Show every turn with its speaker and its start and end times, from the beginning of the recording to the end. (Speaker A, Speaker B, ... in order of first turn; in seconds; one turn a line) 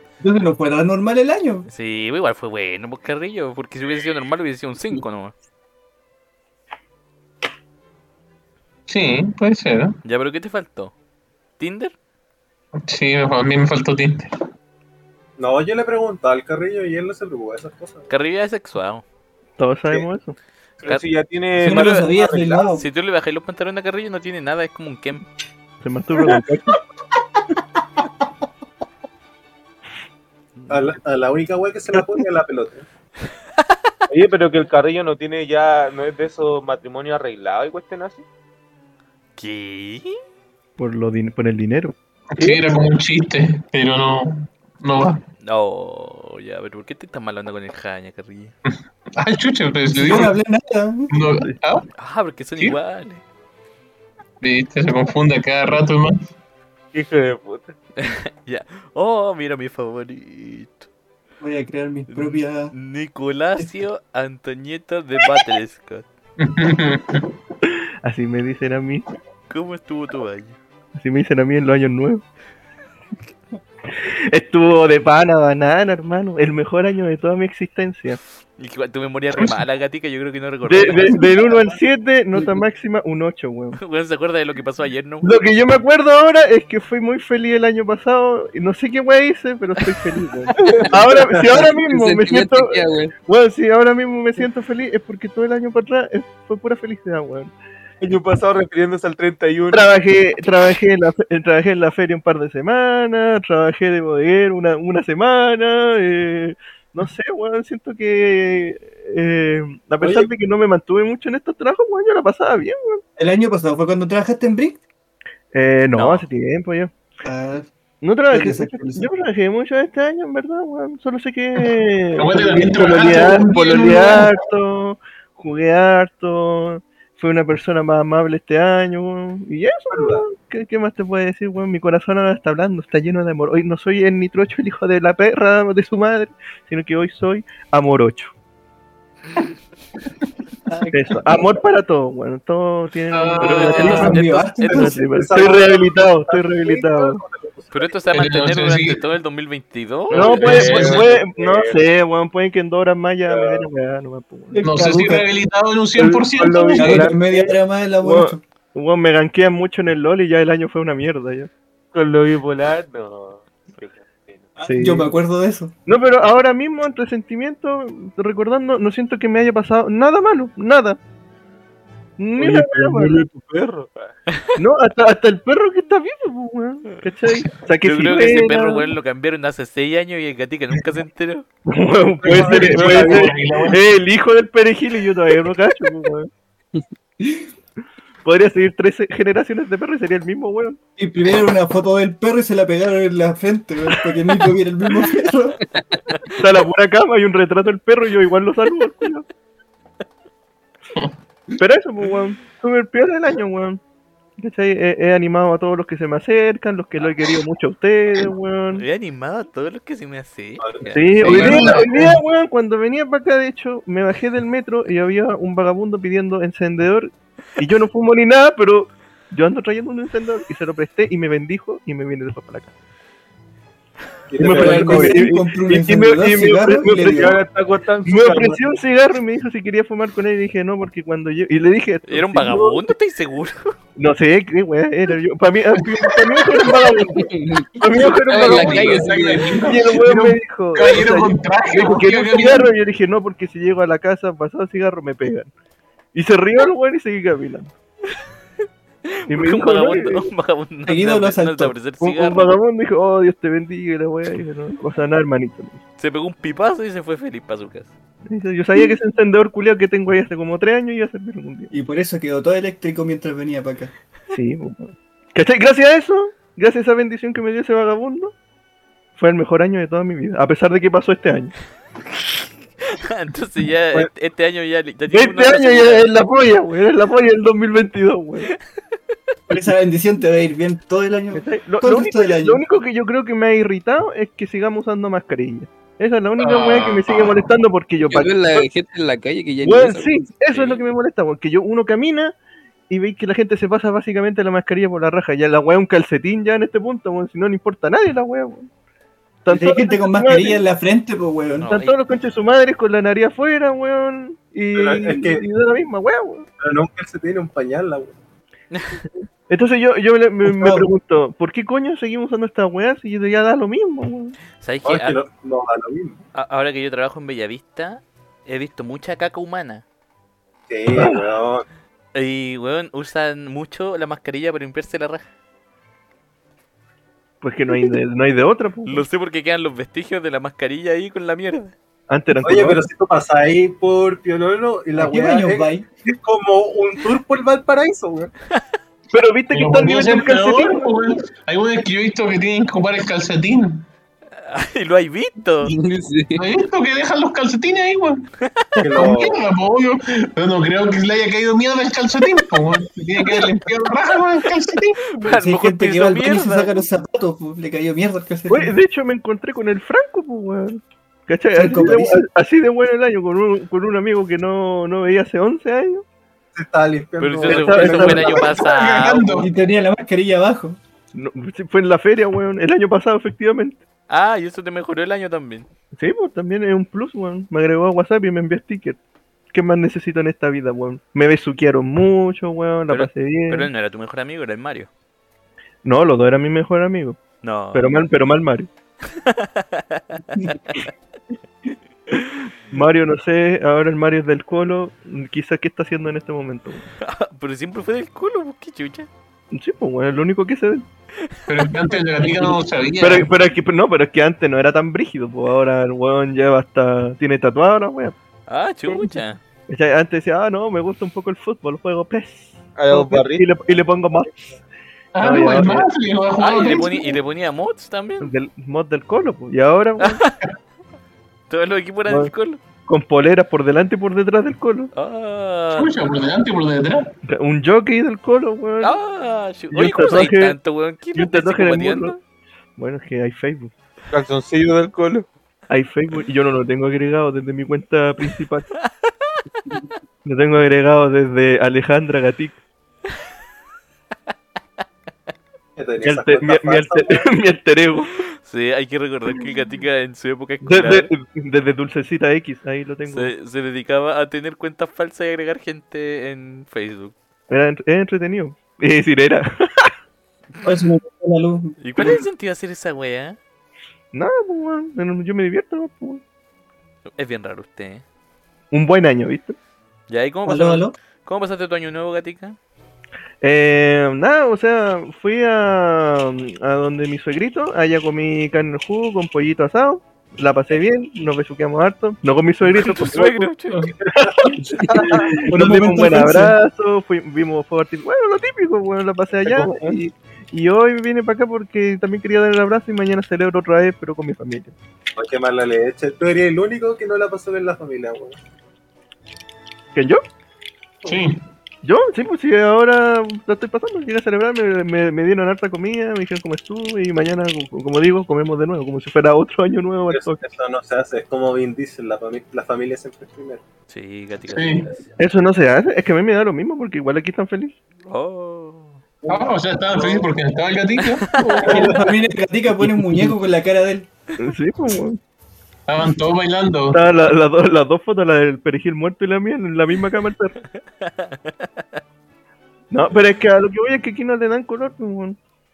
Speaker A: 0.2-1.7
Speaker B: 1.7-5.3
Speaker C: 8.9-10.0
Speaker B: 10.0-10.9
Speaker B: 11.6-11.9
Speaker C: 12.8-14.3
Speaker D: 15.4-18.1
Speaker B: 18.1-19.0
Speaker E: 19.6-20.4
Speaker F: 20.8-22.6
Speaker A: 21.6-22.8
Speaker B: 21.7-22.1
Speaker B: 22.6-25.2
Speaker E: 25.8-26.8
Speaker B: 30.6-30.9
Speaker D: 30.7-32.9
Speaker F: 34.1-38.2
Speaker B: 39.4-40.2
Speaker E: 40.8-42.6
Speaker C: 42.4-45.2
Speaker B: 45.4-48.5
Speaker C: 49.2-50.3
Speaker A: 49.9-51.1
Speaker C: 51.1-51.9
Speaker B: 52.0-53.2
Speaker C: 54.4-56.3
Speaker F: 56.9-57.7
Speaker B: 58.0-60.9
Speaker A: 61.4-62.7
Speaker B: 62.1-66.0
Speaker C: 66.4-67.3
Speaker E: 68.0-69.0
Speaker B: 69.5-70.6
Speaker E: 71.0-72.2
Speaker E: 73.9-78.2
Speaker B: 78.6-81.5
Speaker C: 79.3-79.6
Speaker E: 80.6-83.8
Speaker B: 83.8-85.4
Speaker E: 85.2-97.5
Speaker G: 90.6-93.1
Speaker F: 98.0-99.9
Speaker E: 99.7-113.0
Speaker D: 110.0-110.3
Speaker A: 113.2-114.8
Speaker E: 115.5-116.9
Speaker B: 115.9-116.3
Speaker A: 117.2-117.7
Speaker E: 118.0-138.3
Speaker A: 118.3-119.1
Speaker C: 122.2-124.4
Speaker D: 129.9-130.2
Speaker A: 140.7-141.4
Speaker E: 140.9-147.2
Speaker C: 143.1-144.2
Speaker B: 143.4-144.9
Speaker A: 143.8-145.1
Speaker D: 144.6-147.9
Speaker B: 147.7-150.8
Speaker C: 148.1-149.0
Speaker C: 150.1-151.1
Speaker E: 150.1-154.7
Speaker F: 150.3-151.8
Speaker F: 153.3-153.7
Speaker A: 154.5-155.3
Speaker C: 154.6-157.1
Speaker F: 156.0-157.5
Speaker A: 156.8-158.4
Speaker E: 158.0-161.5
Speaker F: 161.9-164.5
Speaker A: 164.6-165.7
Speaker E: 164.7-165.2
Speaker E: 165.9-171.0
Speaker E: 172.2-173.2
Speaker F: 172.4-174.1
Speaker B: 174.3-174.6
Speaker E: 174.6-178.9
Speaker B: 177.8-181.5
Speaker E: 181.7-186.3
Speaker F: 182.2-183.3
Speaker D: 182.3-182.8
Speaker C: 182.3-183.8
Speaker A: 187.2-187.5
Speaker E: 188.2-190.8
Speaker A: 191.0-195.6
Speaker E: 196.3-199.2
Speaker E: 201.6-203.8
Speaker E: 204.4-208.8
Speaker B: 208.7-211.6
Speaker E: 210.9-222.7
Speaker C: 211.2-212.2
Speaker D: 224.3-225.2
Speaker E: 224.4-227.3
Speaker A: 224.4-227.4
Speaker F: 227.1-228.6
Speaker E: 228.1-232.9
Speaker B: 232.1-233.8
Speaker E: 234.0-245.5
Speaker G: 237.2-239.6
Speaker C: 238.2-242.7
Speaker E: 246.1-247.7
Speaker B: 249.1-252.5
Speaker E: 249.3-250.3
Speaker A: 250.9-251.8
Speaker E: 252.0-255.8
Speaker B: 256.0-257.9
Speaker E: 258.3-261.7
Speaker A: 261.7-263.9
Speaker E: 264.3-268.3
Speaker E: 269.2-271.5
Speaker B: 272.9-276.1
Speaker E: 275.1-278.5
Speaker A: 279.5-282.6
Speaker E: 281.4-288.7
Speaker C: 286.4-287.5
Speaker G: 288.0-290.2
Speaker E: 289.6-292.3
Speaker B: 290.5-290.8
Speaker E: 292.9-298.7
Speaker E: 299.4-300.6
Speaker A: 299.5-301.7
Speaker B: 301.6-302.0
Speaker E: 301.7-306.5
Speaker D: 304.7-305.4
Speaker D: 306.6-308.2
Speaker B: 308.7-309.0
Speaker E: 309.5-314.4
Speaker A: 310.4-310.9
Speaker B: 314.6-315.2
Speaker D: 314.9-316.2
Speaker B: 316.3-319.8
Speaker D: 320.7-321.6
Speaker E: 320.9-321.2
Speaker B: 322.1-325.2
Speaker E: 327.4-329.1
Speaker B: 328.9-331.7
Speaker E: 332.1-332.8
Speaker D: 332.4-338.3
Speaker A: 334.9-335.9
Speaker E: 339.1-340.8
Speaker C: 339.5-343.9
Speaker B: 344.4-345.7
Speaker G: 345.6-346.4
Speaker C: 346.4-348.3
Speaker B: 348.5-348.8
Speaker D: 348.8-349.4
Speaker C: 348.9-355.0
Speaker B: 355.0-356.8
Speaker A: 355.2-358.7
Speaker E: 358.5-366.1
Speaker A: 361.5-362.2
Speaker D: 366.6-368.6
Speaker B: 367.2-369.5
Speaker E: 367.5-368.4
Speaker C: 368.6-369.5
Speaker A: 369.4-370.8
Speaker E: 371.1-373.8
Speaker B: 374.1-375.7
Speaker E: 376.0-379.0
Speaker E: 379.5-383.7
Speaker B: 382.9-384.9
Speaker E: 385.8-387.2
Speaker B: 387.4-388.0
Speaker E: 387.7-388.7
Speaker B: 389.1-390.6
Speaker E: 392.7-396.9
Speaker B: 397.0-399.1
Speaker E: 399.5-400.9
Speaker C: 401.5-403.3
Speaker E: 402.2-408.2
Speaker B: 408.5-409.4
Speaker E: 409.7-414.6
Speaker F: 412.8-413.4
Speaker C: 415.1-417.2
Speaker E: 415.2-415.9
Speaker B: 416.4-418.3
Speaker E: 418.2-420.2
Speaker B: 420.0-420.3
Speaker B: 421.5-422.6
Speaker E: 422.9-424.9
Speaker B: 424.9-425.9
Speaker C: 425.7-427.1
Speaker E: 427.3-429.0
Speaker B: 428.8-432.2
Speaker E: 429.7-430.6
Speaker E: 431.1-432.2
Speaker E: 432.8-433.7
Speaker F: 434.1-435.3
Speaker E: 435.7-438.7
Speaker E: 440.2-442.6
Speaker D: 445.8-447.3
Speaker E: 446.0-448.1
Speaker B: 448.4-451.1
Speaker E: 450.6-453.3
Speaker B: 453.1-457.1
Speaker E: 457.5-459.9
Speaker A: 460.6-462.2
Speaker B: 461.8-463.4
Speaker E: 464.1-466.2
Speaker B: 467.2-468.0
Speaker E: 468.7-469.6
Speaker B: 470.1-472.6
Speaker A: 470.4-470.9
Speaker E: 473.4-483.5
Speaker B: 482.7-483.9
Speaker D: 484.1-485.6
Speaker E: 484.1-494.8
Speaker A: 485.5-486.5
Speaker D: 489.5-489.9
Speaker D: 495.2-498.4
Speaker E: 499.9-500.2
Speaker C: 501.1-501.4
Speaker E: 501.8-510.4
Speaker D: 510.1-513.6
Speaker B: 513.9-515.1
Speaker C: 514.5-514.9
Speaker E: 515.2-517.8
Speaker B: 518.1-519.0
Speaker D: 519.2-520.3
Speaker C: 519.3-521.9
Speaker B: 521.2-521.5
Speaker D: 521.6-522.0
Speaker A: 521.6-524.1
Speaker E: 522.8-523.3
Speaker E: 524.4-525.2
Speaker C: 525.9-527.0
Speaker E: 526.9-530.6
Speaker B: 531.0-532.0
Speaker E: 532.9-535.4